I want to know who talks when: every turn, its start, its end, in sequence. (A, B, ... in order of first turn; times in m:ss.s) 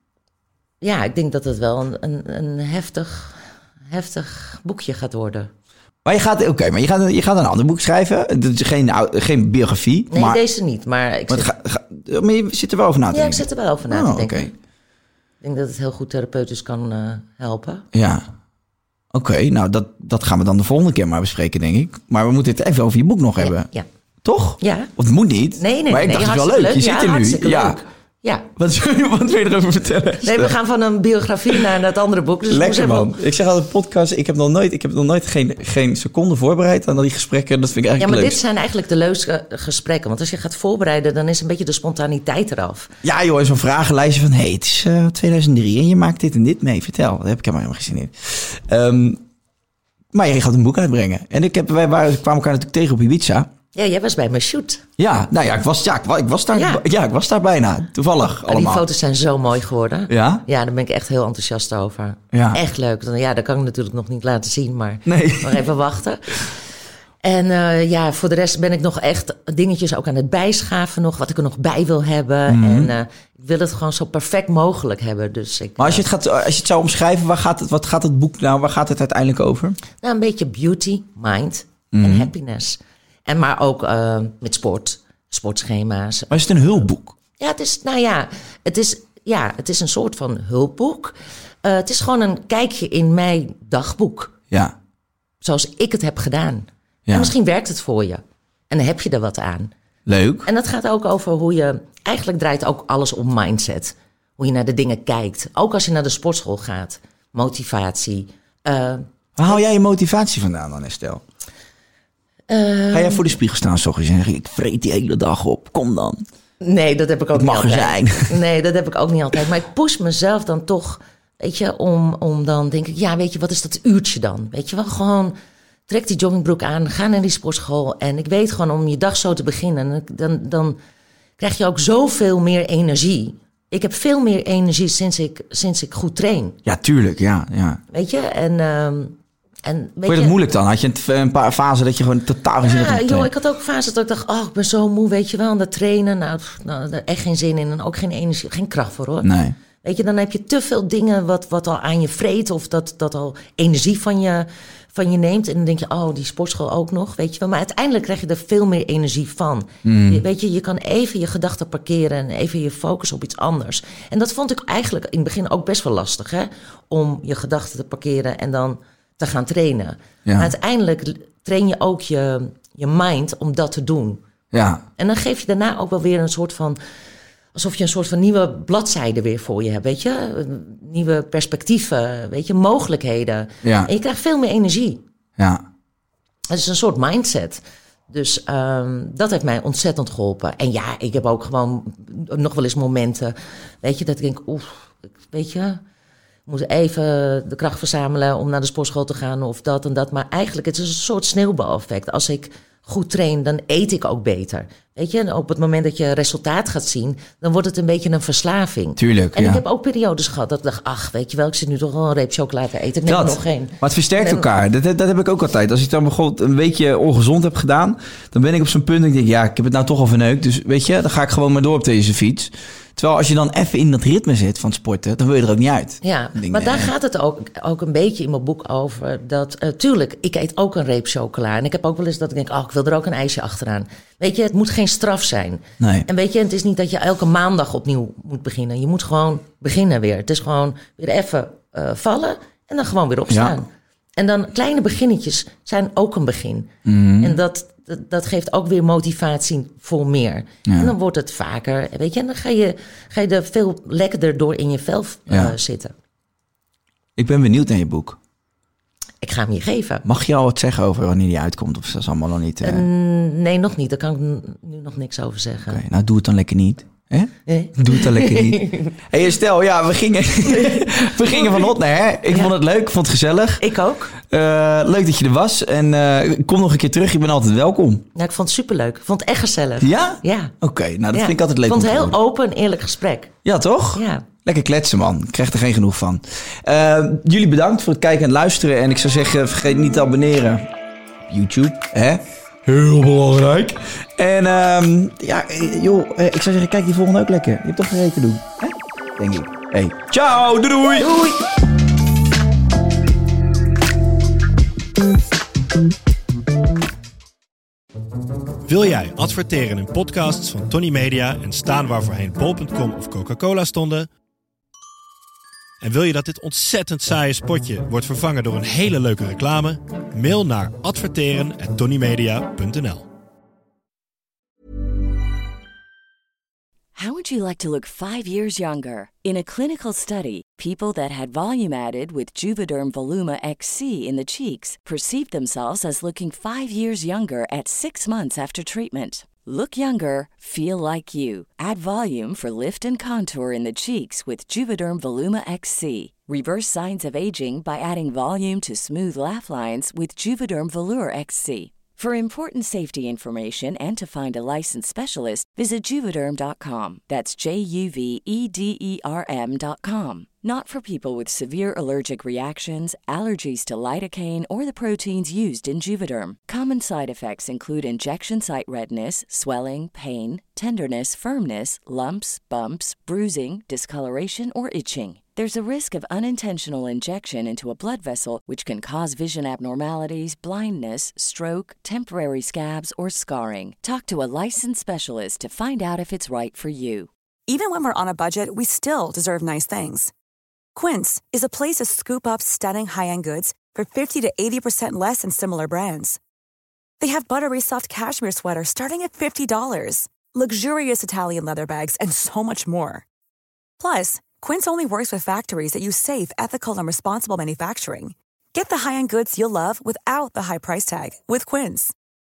0:00.8-0:05.5 A
0:06.0-0:10.4 B
0:10.1-0:11.5 A
0:11.3-0:14.5 B
0:13.1-0:14.5 A
0:15.4-0:17.8 A
0:17.9-0:18.3 B
0:19.1-0:23.7 B
0:23.4-0:23.8 A
0:24.2-0:27.8 B
0:24.6-0:24.9 A
0:25.6-0:28.5 A
0:28.6-0:30.6 B
0:30.2-0:33.2 A
0:32.5-0:38.4 B
0:38.0-0:42.9 A
0:43.0-0:49.2 B
0:50.1-0:53.5 B
0:53.7-0:54.8 A
0:55.0-0:58.8 B
0:56.5-0:56.8 A
0:58.5-1:06.6 A
1:00.1-1:00.4 B
1:02.3-1:02.6 B
1:05.0-1:05.6 B
1:07.2-1:16.0 A
1:12.5-1:12.9 B
1:15.8-1:19.8 B
1:20.0-1:26.4 A
1:21.9-1:22.3 B
1:26.3-1:27.1 B
1:27.4-1:34.3 A
1:35.4-1:39.7 A
1:37.1-1:37.3 B
1:40.1-1:40.5 B
1:40.4-1:49.0 A
1:49.4-1:51.2 B
1:52.5-1:53.4 A
1:52.9-1:56.2 B
1:56.6-2:05.3 A
1:57.3-1:58.4 B
2:05.9-2:10.8 A
2:11.4-2:16.6 A
2:16.6-2:17.8 B
2:17.9-2:20.4 A
2:20.0-2:23.3 B
2:22.6-2:29.3 A
2:29.2-2:29.6 B
2:29.8-2:54.2 A
2:39.8-2:40.2 B
2:50.2-2:50.5 B
2:54.5-2:54.8 B
2:55.0-2:56.8 A
2:57.5-3:05.0 A
3:03.6-3:03.9 B
3:06.5-3:15.8 A
3:16.5-3:34.4 A
3:29.0-3:29.6 B
3:33.0-3:46.9 B
3:46.0-4:15.9 A
3:55.8-3:56.1 B
4:03.3-4:03.6 B
4:06.8-4:07.4 B
4:10.6-4:10.9 B
4:15.3-4:15.5 B
4:17.2-4:18.2 B
4:19.2-4:20.0 A
4:20.0-4:22.8 B
4:22.6-4:25.8 A
4:25.7-4:33.6 B
4:27.5-4:28.9 A
4:30.5-4:31.7 A
4:33.6-4:34.1 A
4:34.2-4:38.0 B
4:38.1-4:40.5 A
4:39.8-4:42.2 B
4:41.1-4:43.3 A
4:43.4-4:50.7 B
4:43.9-4:44.2 A
4:51.3-5:01.2 B
5:01.0-5:01.4 A
5:08.6-5:14.1 C
5:15.8-5:23.1 C
5:26.9-6:27.1 D
6:27.5-6:30.1 E
6:30.7-6:36.2 E
6:37.0-6:43.0 E
6:43.8-6:51.9 E